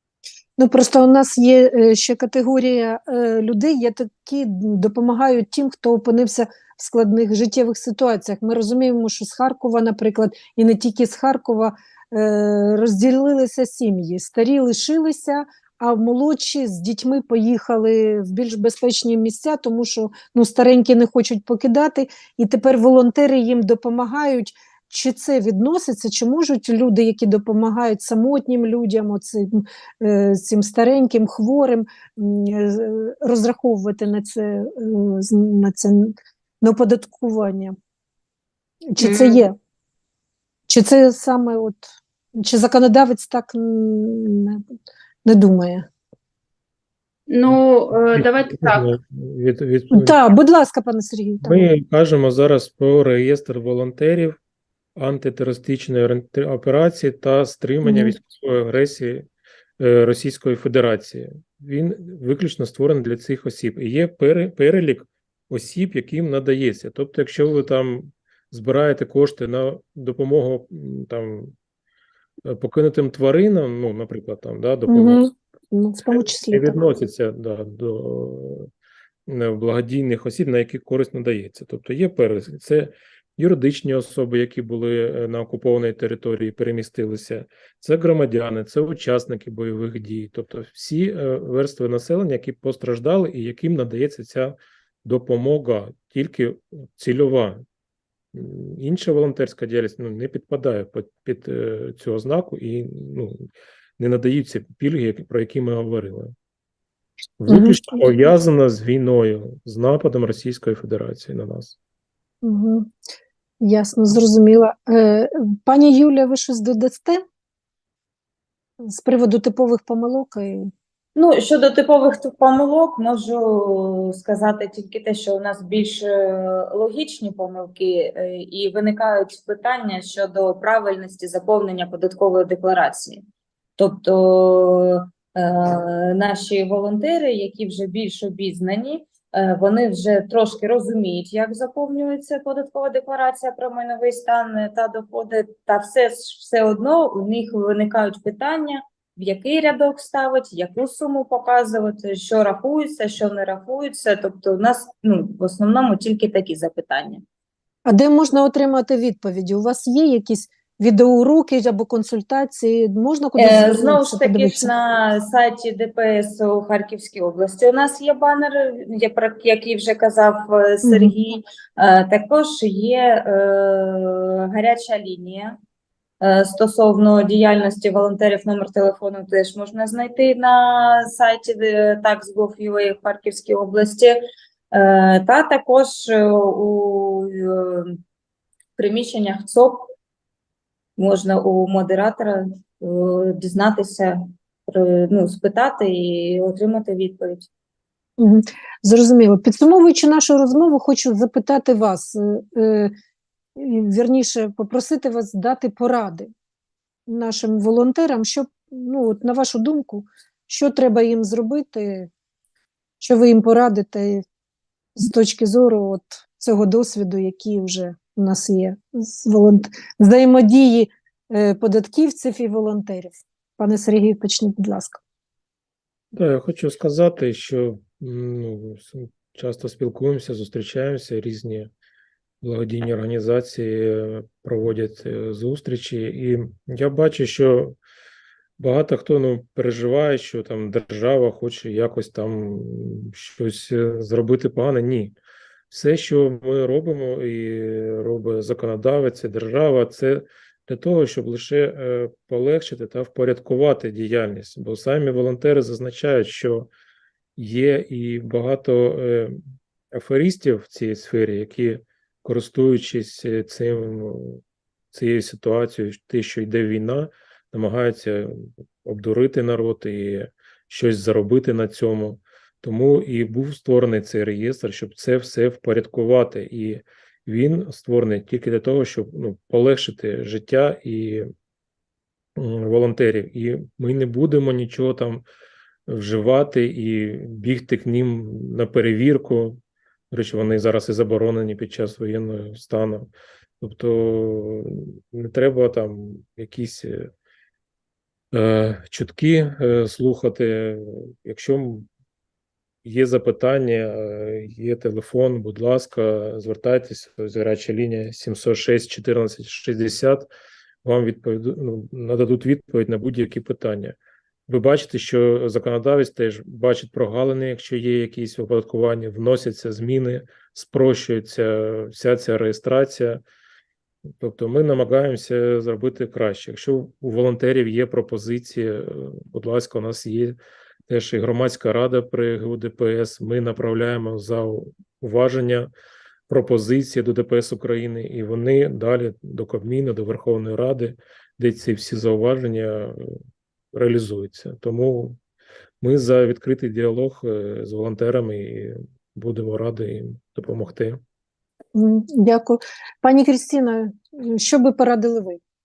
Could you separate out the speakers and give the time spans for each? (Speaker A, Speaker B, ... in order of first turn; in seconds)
Speaker A: 0.6-37.8, 38.9-39.6, 40.7-44.7, 45.2-45.9, 49.9-51.7, 57.8-58.1, 74.9-76.8, 107.5-108.1, 112.4-112.9, 113.6-117.2, 118.8-120.7, 157.8-164.7, 170.8-171.1, 198.2-202.9, 203.6-206.3, 207.1-212.1, 213.0-214.2, 215.0-225.0, 351.7-355.4
Speaker B: 39.0-39.4, 47.3-48.9
Speaker C: 48.1-50.2, 51.4-54.4, 55.0-59.3, 59.8-71.5, 72.5-75.2, 76.1-78.7, 79.3-97.6, 98.3-103.5, 104.0-106.3, 107.4-111.8, 226.1-231.7, 232.4-237.8, 238.6-245.2, 245.7-256.7, 257.4-264.4, 264.9-281.3, 282.4-285.2, 285.9-289.6, 290.1-293.1, 293.6-297.1, 298.3-301.9, 302.8-310.3, 310.8-314.0, 314.5-323.2, 324.2-330.4, 330.9-335.7, 336.3-343.2, 343.7-345.2, 345.8-351.0
Speaker D: 121.2-133.2, 133.8-157.2, 163.4-175.6, 176.2-184.2, 184.7-188.0, 188.8-189.9, 191.0-197.5